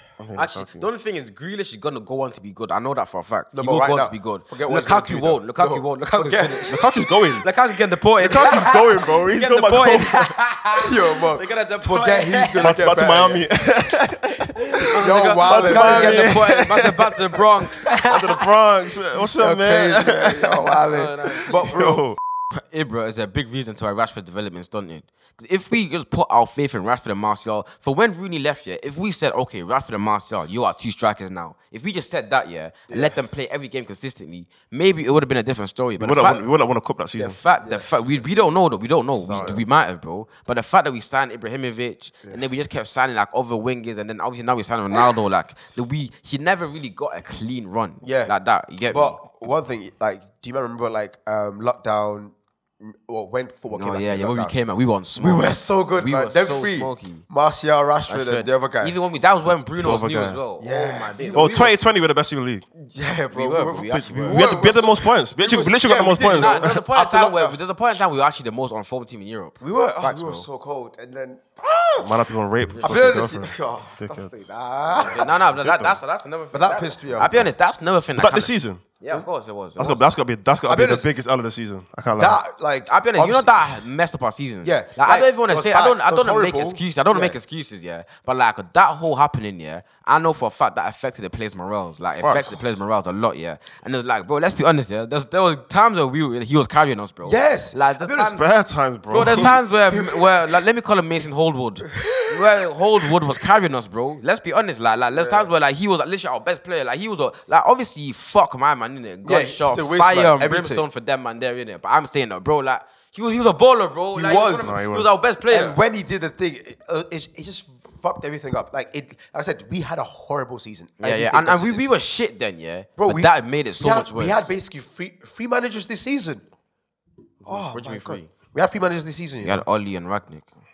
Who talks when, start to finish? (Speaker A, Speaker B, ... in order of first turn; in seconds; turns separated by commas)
Speaker A: 0.2-0.8, Speaker B: 0.3-6.8, Speaker C: 3.5-6.7, Speaker A: 6.7-7.5, Speaker B: 7.4-12.8, Speaker A: 8.2-10.3, Speaker C: 10.8-13.4, Speaker A: 12.6-17.1, Speaker B: 14.6-18.4, Speaker C: 14.9-16.4, Speaker A: 17.9-20.8, Speaker C: 19.1-22.1, Speaker B: 20.9-21.5, Speaker A: 21.5-22.2, Speaker B: 22.5-36.5, Speaker C: 32.9-33.1, Speaker A: 36.0-37.4, Speaker B: 37.2-49.2, Speaker C: 37.6-38.2, Speaker C: 39.3-39.6, Speaker C: 48.0-48.3, Speaker C: 48.9-54.5, Speaker B: 53.7-57.2, Speaker C: 55.2-58.9, Speaker B: 58.1-61.8, Speaker A: 59.8-60.4, Speaker C: 60.6-61.8, Speaker A: 61.3-62.6, Speaker C: 62.9-67.5, Speaker B: 63.3-64.5, Speaker A: 63.9-66.7, Speaker B: 66.3-70.4, Speaker C: 69.6-72.1, Speaker A: 72.0-74.4, Speaker C: 72.8-75.3, Speaker B: 75.0-80.0, Speaker A: 75.5-76.0, Speaker C: 76.5-77.5, Speaker A: 78.2-78.8, Speaker A: 79.8-82.4, Speaker C: 80.7-81.1, Speaker C: 82.2-83.6, Speaker B: 82.9-98.4, Speaker C: 84.6-87.4, Speaker A: 92.2-92.5, Speaker C: 97.2-98.4, Speaker A: 98.2-99.5, Speaker B: 99.1-115.8, Speaker C: 99.2-100.6, Speaker C: 101.9-102.5, Speaker C: 105.1-105.5, Speaker C: 109.2-110.8, Speaker C: 114.1-114.8, Speaker A: 114.6-115.1, Speaker C: 115.5-121.9, Speaker B: 121.0-124.5, Speaker C: 123.0-126.4, Speaker B: 127.4-128.3, Speaker C: 127.4-129.6, Speaker B: 129.4-130.5